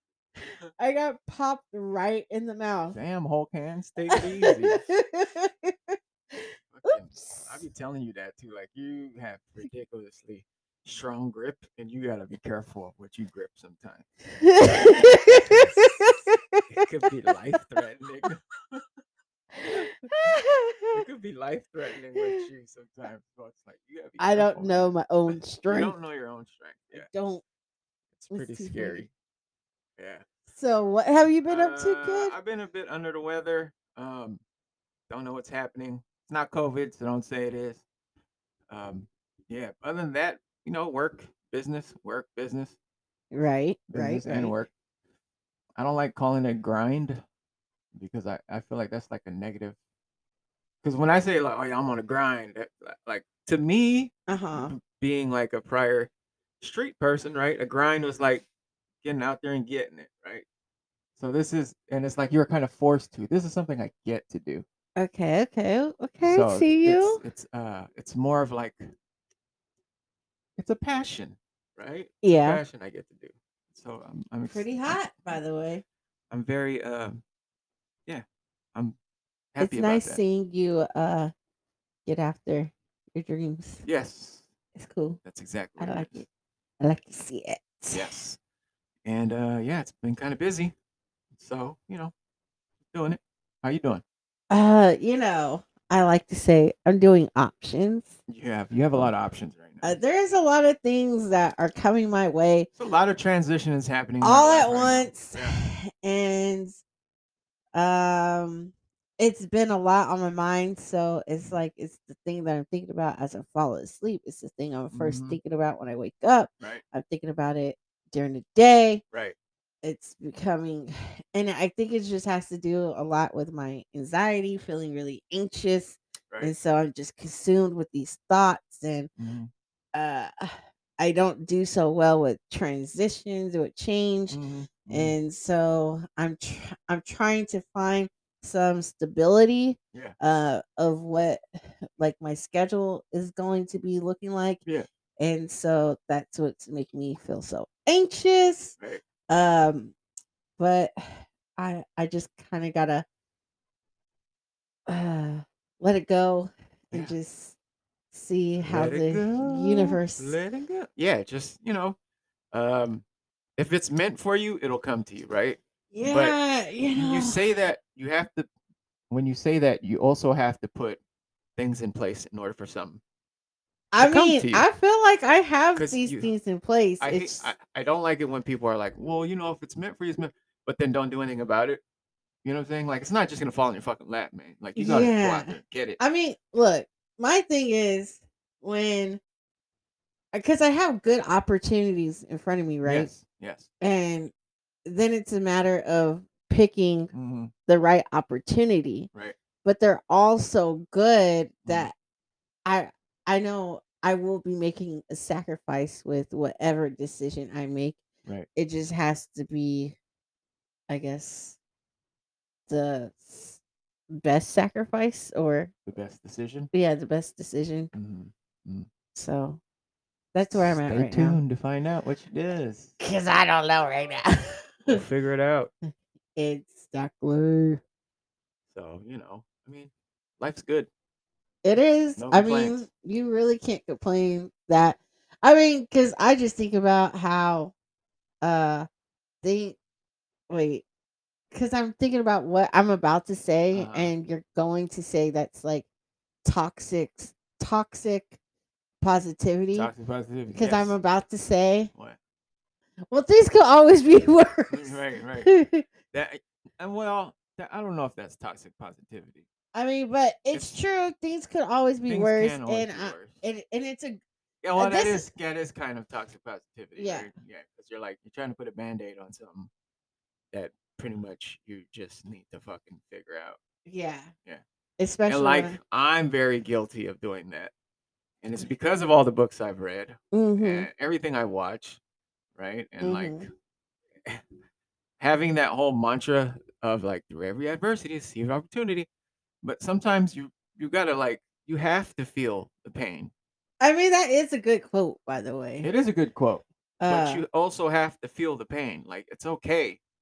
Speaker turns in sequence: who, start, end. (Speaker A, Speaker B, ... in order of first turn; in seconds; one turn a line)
Speaker A: 0.8-3.0
Speaker B: 2.9-4.8
Speaker A: 4.1-7.6
Speaker B: 6.7-14.1
Speaker A: 14.4-16.8
Speaker B: 16.7-18.8
Speaker A: 19.6-21.0
Speaker B: 20.9-27.1
Speaker A: 22.2-22.4
Speaker A: 24.2-25.9
Speaker A: 26.9-27.4
Speaker B: 28.1-29.1
Speaker A: 28.3-29.0
Speaker B: 30.0-30.2
Speaker A: 30.5-32.3
Speaker B: 31.5-34.4
Speaker B: 35.1-37.8
Speaker B: 38.7-42.8
Speaker A: 43.3-44.5
Speaker B: 43.9-44.7
Speaker B: 45.8-47.2
Speaker B: 47.9-49.7
Speaker B: 50.8-56.1
Speaker A: 54.3-54.8
Speaker B: 56.6-58.4
Speaker B: 59.0-60.4
Speaker B: 61.2-64.6
Speaker A: 65.0-67.2
Speaker B: 66.2-68.9
Speaker B: 70.6-75.4
Speaker A: 72.2-72.6
Speaker A: 74.5-75.8
Speaker B: 76.3-77.2
Speaker B: 78.1-79.0
Speaker B: 79.5-80.2
Speaker A: 79.6-81.3
Speaker A: 82.0-83.8
Speaker B: 83.8-84.5
Speaker A: 84.8-85.2
Speaker B: 85.2-86.2
Speaker A: 85.8-86.2
Speaker A: 86.8-88.0
Speaker B: 87.9-88.4
Speaker B: 89.0-90.7
Speaker B: 91.4-92.1
Speaker B: 92.9-94.0
Speaker A: 94.5-98.1
Speaker B: 98.3-100.0
Speaker A: 99.8-102.7
Speaker B: 102.8-105.6
Speaker A: 104.2-106.8
Speaker A: 107.7-119.0
Speaker B: 114.9-115.4
Speaker A: 119.8-129.1
Speaker B: 129.2-129.5
Speaker A: 129.9-141.4
Speaker B: 134.3-135.1
Speaker A: 142.0-144.6
Speaker A: 145.2-148.8
Speaker A: 149.3-149.9
Speaker A: 150.6-153.0
Speaker A: 154.9-157.5
Speaker A: 158.1-160.3
Speaker B: 158.6-161.9
Speaker B: 162.5-163.0
Speaker B: 163.6-166.3
Speaker A: 165.9-167.4
Speaker B: 166.9-168.5
Speaker B: 169.1-171.0
Speaker B: 171.6-173.0
Speaker A: 173.9-177.5
Speaker B: 174.0-174.7
Speaker B: 175.7-176.3
Speaker B: 177.0-181.8
Speaker B: 182.4-186.0
Speaker A: 184.8-189.2
Speaker A: 190.3-193.1
Speaker B: 192.8-193.7
Speaker A: 193.8-194.3
Speaker A: 194.8-197.1
Speaker B: 197.1-197.5
Speaker A: 197.7-199.1
Speaker A: 199.6-201.9
Speaker A: 202.7-208.0
Speaker A: 208.5-209.9
Speaker A: 210.9-211.6
Speaker A: 212.7-213.6
Speaker A: 214.1-215.7
Speaker B: 215.8-216.7
Speaker A: 216.7-217.9
Speaker B: 217.9-218.9
Speaker A: 219.1-219.6
Speaker A: 220.3-221.4
Speaker B: 220.5-222.9
Speaker A: 223.0-225.0
Speaker B: 224.9-225.7
Speaker A: 226.3-227.8
Speaker B: 228.7-230.9
Speaker A: 231.6-237.7
Speaker B: 232.2-232.8
Speaker A: 238.4-238.9
Speaker A: 239.4-239.8
Speaker A: 240.5-240.8
Speaker A: 241.5-245.8
Speaker B: 243.7-244.1
Speaker A: 246.4-248.4
Speaker A: 249.0-249.9
Speaker B: 249.7-250.9
Speaker A: 250.5-251.9
Speaker A: 253.1-255.8
Speaker B: 254.7-255.5
Speaker B: 256.1-259.4
Speaker A: 259.7-264.2
Speaker B: 262.1-263.4
Speaker B: 264.6-269.7
Speaker A: 264.8-265.3
Speaker A: 266.9-267.3
Speaker B: 270.5-273.6
Speaker A: 273.9-274.3
Speaker A: 275.0-275.8
Speaker B: 275.3-277.7
Speaker B: 278.4-282.0
Speaker A: 280.3-280.9
Speaker B: 282.6-283.4
Speaker A: 283.0-283.4
Speaker B: 285.2-289.1
Speaker B: 289.6-293.3
Speaker A: 293.8-295.9
Speaker B: 295.8-300.0
Speaker A: 297.0-297.4